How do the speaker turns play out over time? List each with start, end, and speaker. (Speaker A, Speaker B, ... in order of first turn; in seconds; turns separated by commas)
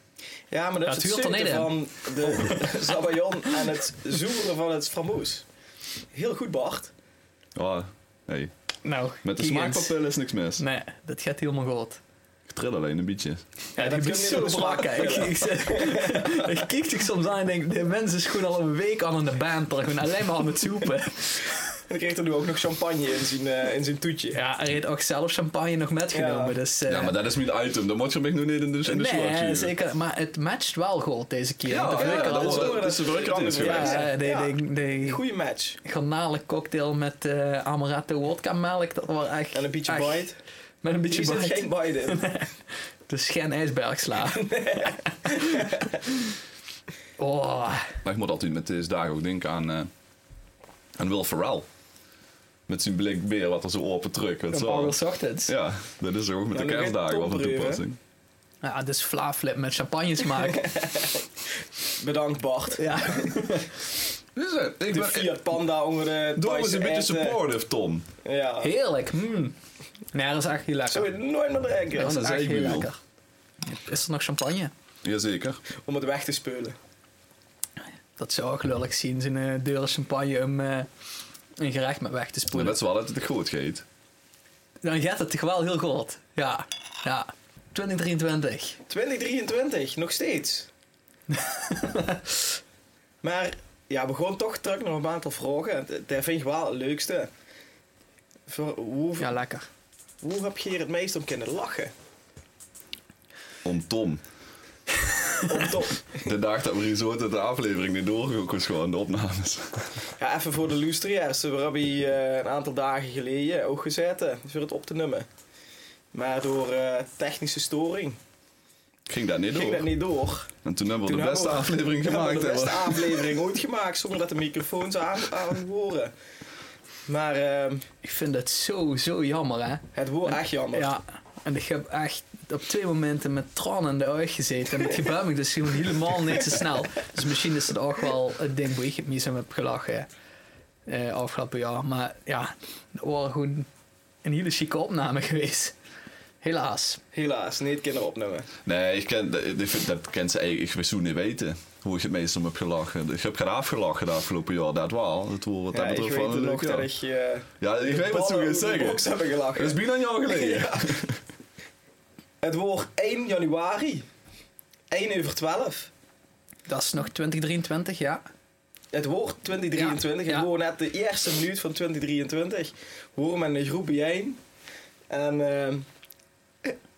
Speaker A: 0.5-5.4, Speaker B: 0.8-2.7, Speaker A: 6.1-6.9, Speaker C: 7.5-8.5, Speaker B: 8.8-10.0, Speaker C: 9.2-10.6, Speaker B: 10.6-12.0, Speaker C: 12.5-13.4, Speaker B: 13.8-21.8, Speaker A: 13.8-16.5, Speaker A: 21.9-24.4, Speaker B: 24.3-27.2, Speaker A: 26.1-26.6, Speaker C: 26.9-29.7, Speaker B: 28.9-32.9, Speaker C: 31.6-34.0, Speaker A: 31.8-35.8, Speaker B: 33.6-35.2, Speaker B: 35.8-40.2, Speaker A: 39.5-40.4, Speaker B: 40.8-42.5, Speaker A: 41.1-42.2, Speaker B: 43.1-46.3, Speaker A: 44.3-45.9, Speaker B: 47.2-48.0, Speaker C: 48.0-49.9, Speaker C: 51.0-51.7, Speaker C: 52.7-58.0, Speaker B: 54.5-55.5, Speaker A: 56.5-57.8, Speaker B: 58.6-60.7, Speaker A: 60.5-61.2, Speaker A: 61.9-63.5, Speaker B: 62.8-63.7, Speaker C: 64.3-65.5, Speaker A: 64.9-67.4, Speaker C: 66.3-68.0, Speaker A: 68.2-68.7, Speaker B: 68.6-69.5, Speaker B: 70.1-71.1, Speaker A: 70.9-72.2, Speaker B: 72.0-73.0, Speaker C: 72.0-72.9, Speaker B: 73.6-74.7, Speaker C: 75.0-75.6, Speaker A: 75.8-76.8, Speaker B: 78.2-80.9, Speaker B: 81.6-82.8, Speaker C: 82.5-83.8, Speaker B: 84.8-88.8, Speaker A: 88.9-90.7, Speaker B: 91.3-92.4, Speaker A: 93.2-97.3, Speaker A: 98.5-99.4, Speaker B: 99.2-99.7, Speaker A: 100.2-101.9, Speaker C: 103.6-104.2, Speaker A: 105.5-106.2, Speaker C: 106.2-110.0, Speaker A: 110.2-115.3, Speaker A: 116.1-118.2, Speaker C: 119.1-119.9, Speaker A: 119.5-120.5, Speaker C: 120.6-123.2, Speaker A: 121.0-126.1, Speaker A: 127.1-127.8, Speaker B: 128.0-140.1, Speaker A: 129.9-130.9, Speaker B: 140.9-143.7, Speaker B: 144.2-145.7, Speaker B: 146.4-147.0, Speaker A: 147.1-148.5, Speaker C: 148.6-156.9, Speaker A: 155.7-161.0, Speaker C: 157.6-161.2, Speaker A: 162.4-164.1, Speaker A: 164.9-165.9, Speaker B: 166.7-168.2, Speaker A: 168.9-174.4, Speaker B: 169.7-170.5, Speaker A: 175.1-175.9